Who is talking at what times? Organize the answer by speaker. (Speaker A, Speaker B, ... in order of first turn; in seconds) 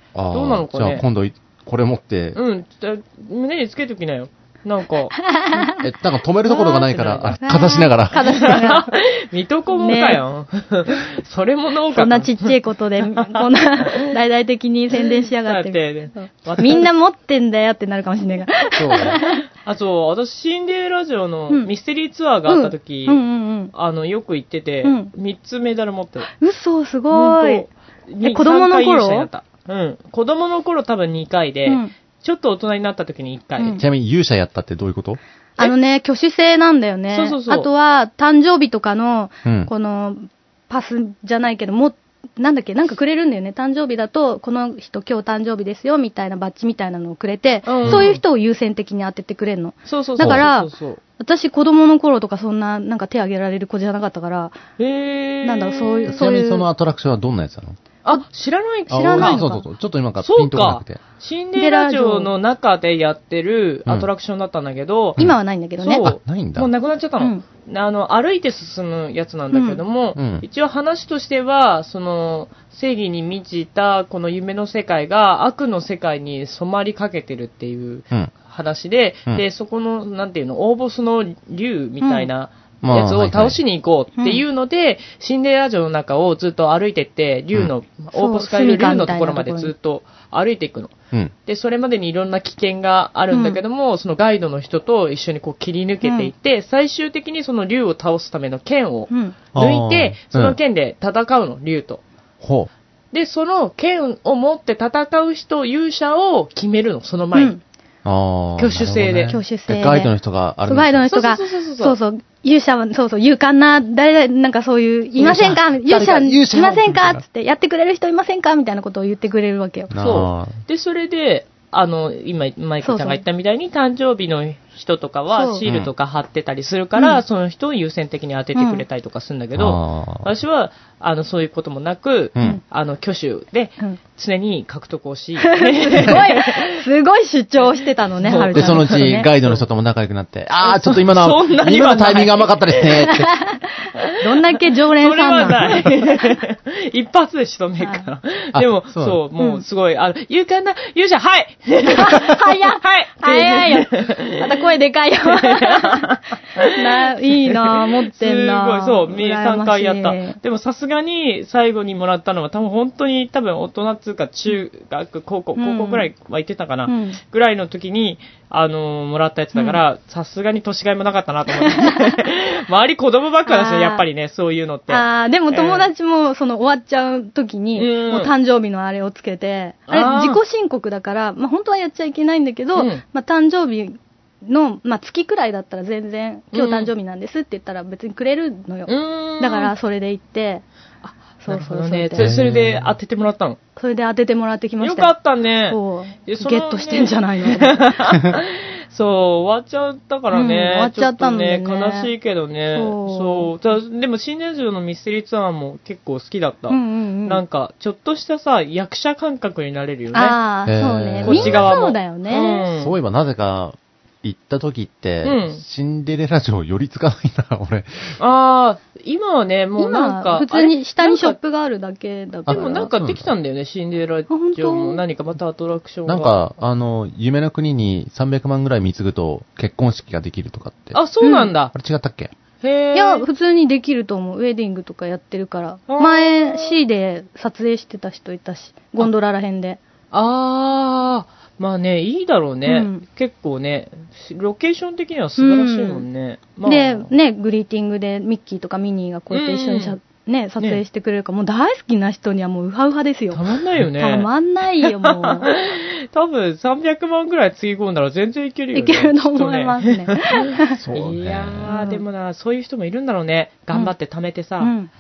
Speaker A: 0.1-2.4, 5.8-8.6, 18.8-19.2, 33.8-35.2, 39.4-39.7, 50.2-50.4, 56.1-57.8, 58.9-61.0, 66.0-66.7, 70.2-70.4, 82.8-83.6, 99.5-100.6, 102.4-102.7, 108.0-111.2, 115.2-117.2, 119.9-120.6, 125.6-125.9, 129.5-130.3, 138.5-143.3, 148.5-149.2, 192.2-192.9, 210.7-211.7, 212.8-218.2, 222.5-223.3, 226.1-231.0, 231.7-232.3, 260.8-261.7
Speaker B: 0.3-1.0, 2.3-5.2, 6.5-7.8, 8.4-14.0, 15.1-16.9, 19.6-26.3, 27.1-33.8, 37.1-37.7, 47.6-48.2, 49.9-51.0, 54.8-56.1, 58.0-59.5, 60.2-65.2, 65.8-90.9, 91.5-102.0, 103.1-107.5, 108.6-109.4, 111.1-112.0, 120.0-136.8, 138.2-139.6, 140.6-143.1, 144.9-154.5, 155.2-175.9, 177.8-178.3, 179.9-180.4, 182.8-183.0, 186.5-186.9, 188.9-189.7, 191.5-193.6, 194.8-210.4, 211.2-212.9, 215.2-215.6, 218.2-221.4, 222.5-226.3, 230.9-231.7, 232.6-233.2, 235.9-236.8, 240.1-247.1, 249.3-249.9, 253.3-254.3, 254.8-264.7
Speaker C: 5.2-5.8, 7.4-8.9, 9.8-10.2, 11.9-19.4, 22.5-23.7, 24.8-25.1, 26.4-27.6, 28.2-29.3, 31.6-31.9, 35.6-54.6, 55.4-56.7, 58.9-59.6, 61.5-62.3, 65.2-66.1, 69.5-69.8, 82.0-82.3, 84.2-84.4, 88.1-89.7, 93.3-93.6, 96.0-96.3, 99.1-99.3, 107.3-107.6, 109.3-110.1, 110.6-119.9, 122.8-123.2, 125.3-125.6, 128.5-128.8, 135.4-139.3, 144.2-146.2, 147.8-148.1, 149.4-149.6, 151.9-156.1, 156.6-160.4, 165.6-166.1, 166.8-167.2, 169.5-169.8, 171.7-172.1, 173.4-174.0, 174.9-190.6, 191.4-192.3, 193.8-195.1, 195.7-197.9, 200.3-202.1, 202.7-203.5, 206.7-207.4, 210.1-212.6, 219.8-222.9, 224.3-225.0, 231.2-231.5, 232.9-239.8, 242.7-243.0, 245.4-246.0, 246.6-253.4, 254.0-255.5, 258.7-260.8, 261.7-262.0, 264.6-264.9